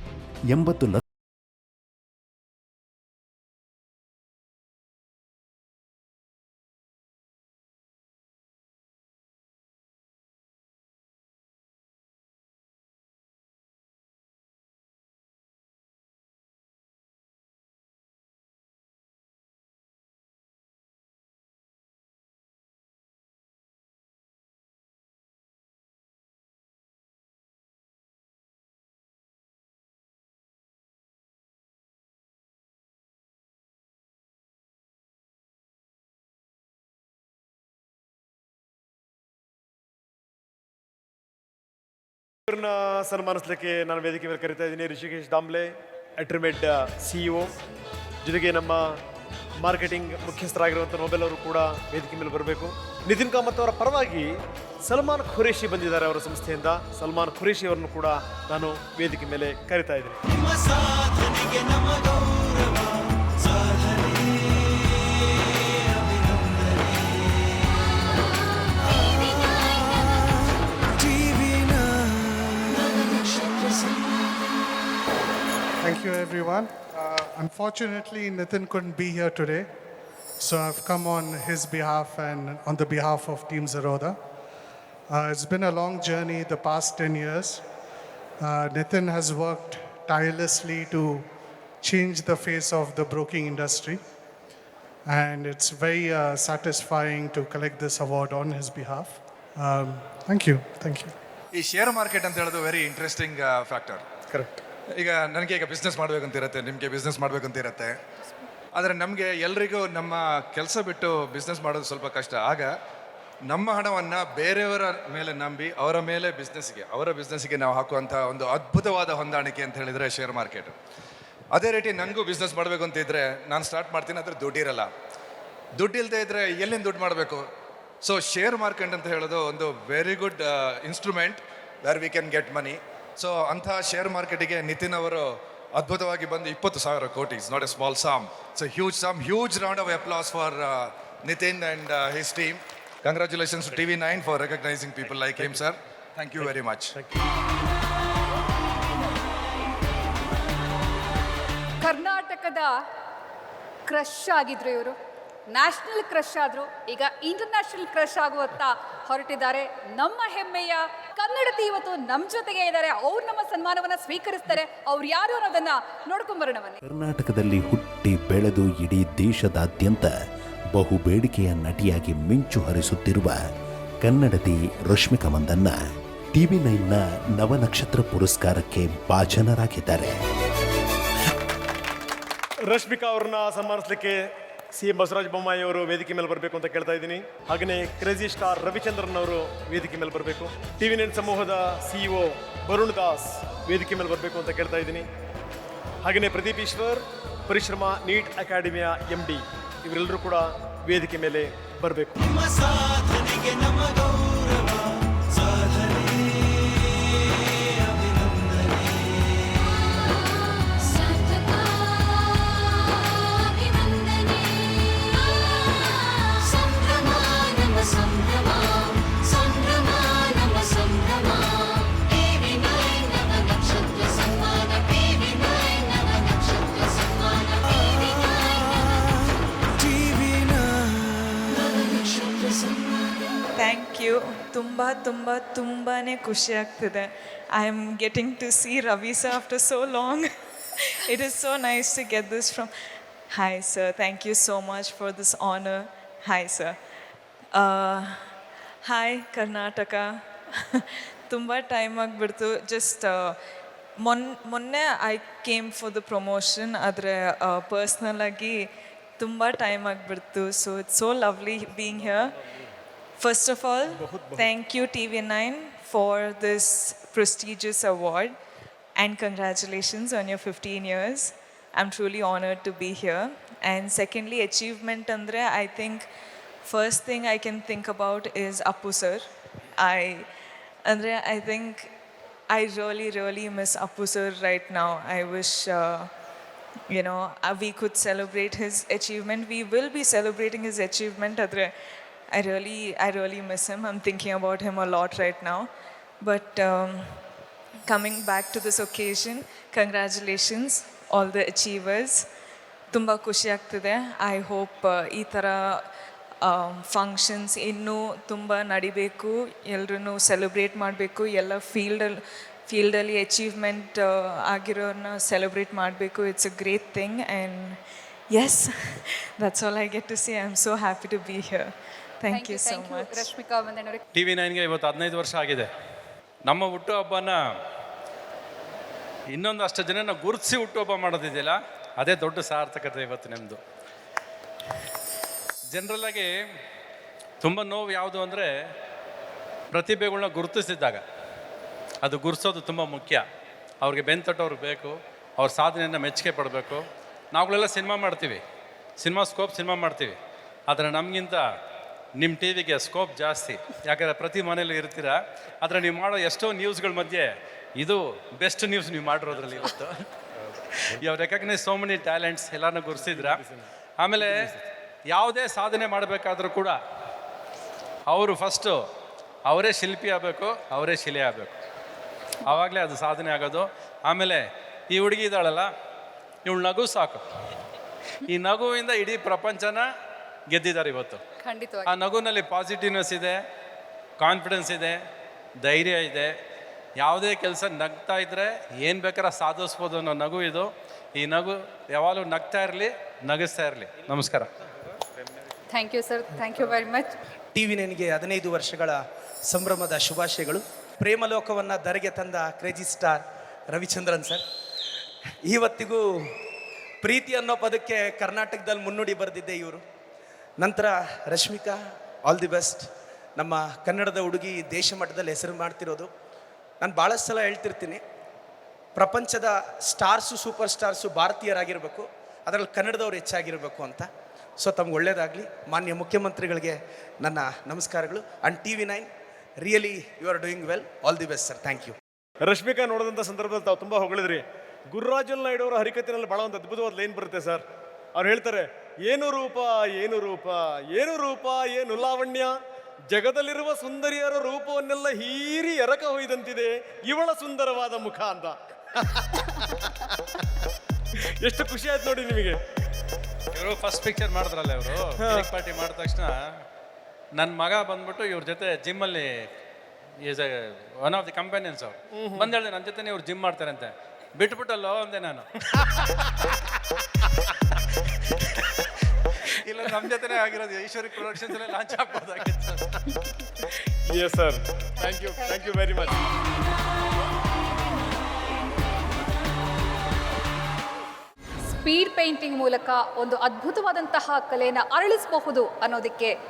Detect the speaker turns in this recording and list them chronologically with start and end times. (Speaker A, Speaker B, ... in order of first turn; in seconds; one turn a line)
Speaker A: 0.5-1.0
Speaker B: 42.5-47.5
Speaker B: 48.2-49.0
Speaker B: 49.6-54.3
Speaker B: 54.9-60.2
Speaker C: 75.8-79.7
Speaker C: 80.4-84.2
Speaker C: 85.1-87.6
Speaker C: 88.4-91.3
Speaker C: 91.8-94.0
Speaker C: 95.1-101.2
Speaker D: 101.5-104.0
Speaker B: 104.3-104.6
Speaker D: 105.0-108.0
Speaker D: 108.8-112.7
Speaker D: 113.5-120.8
Speaker D: 121.5-124.9
Speaker D: 125.8-127.5
Speaker D: 128.0-147.0
Speaker E: 151.8-152.7
Speaker E: 153.9-155.0
Speaker E: 155.5-166.8
Speaker A: 166.8-170.1
Speaker A: 170.7-173.4
Speaker A: 174.0-175.8
Speaker A: 176.3-180.2
Speaker B: 182.7-184.2
Speaker B: 184.8-195.1
Speaker B: 196.0-202.2
Speaker F: 233.6-240.3
Speaker F: 240.9-242.7
Speaker F: 243.3-246.8
Speaker F: 247.5-248.3
Speaker F: 248.9-253.4
Speaker F: 254.0-262.4
Speaker F: 263.2-268.4
Speaker B: 263.9-264.5
Speaker F: 269.0-276.1
Speaker F: 276.6-280.3
Speaker F: 280.9-281.9
Speaker F: 282.5-286.1
Speaker F: 286.9-291.7
Speaker F: 292.3-295.7
Speaker F: 296.2-297.2
Speaker F: 297.9-302.3
Speaker F: 302.9-305.9
Speaker F: 306.4-323.3
Speaker E: 322.3-324.0
Speaker G: 324.1-325.7
Speaker G: 326.5-327.5
Speaker G: 329.3-333.6
Speaker G: 335.7-336.3
Speaker G: 337.4-338.5
Speaker G: 339.7-341.0
Speaker G: 342.0-343.2
Speaker G: 343.8-348.4
Speaker G: 349.0-350.2
Speaker G: 350.7-351.4
Speaker G: 352.2-360.1
Speaker G: 360.9-363.4
Speaker B: 363.0-363.6
Speaker G: 364.0-364.4
Speaker B: 364.2-364.6
Speaker G: 365.1-366.8
Speaker G: 368.1-368.8
Speaker G: 369.5-371.6
Speaker G: 372.5-375.7
Speaker G: 376.5-377.2
Speaker G: 378.3-379.9
Speaker G: 380.5-381.2
Speaker E: 381.4-381.9
Speaker G: 381.9-383.4
Speaker G: 384.2-385.0
Speaker G: 385.6-386.3
Speaker G: 387.0-394.5
Speaker E: 395.7-397.1
Speaker H: 397.5-404.4
Speaker H: 405.4-406.4
Speaker H: 407.0-409.8
Speaker H: 410.6-416.1
Speaker H: 416.8-418.0
Speaker H: 419.0-432.0
Speaker B: 432.4-437.6
Speaker B: 438.2-442.6
Speaker B: 443.1-449.8
Speaker B: 451.4-452.6
Speaker G: 453.5-456.6
Speaker B: 455.2-455.4
Speaker G: 457.4-459.4
Speaker G: 460.2-465.6
Speaker B: 462.2-462.5
Speaker G: 469.5-472.9
Speaker B: 474.1-476.1
Speaker E: 481.7-486.3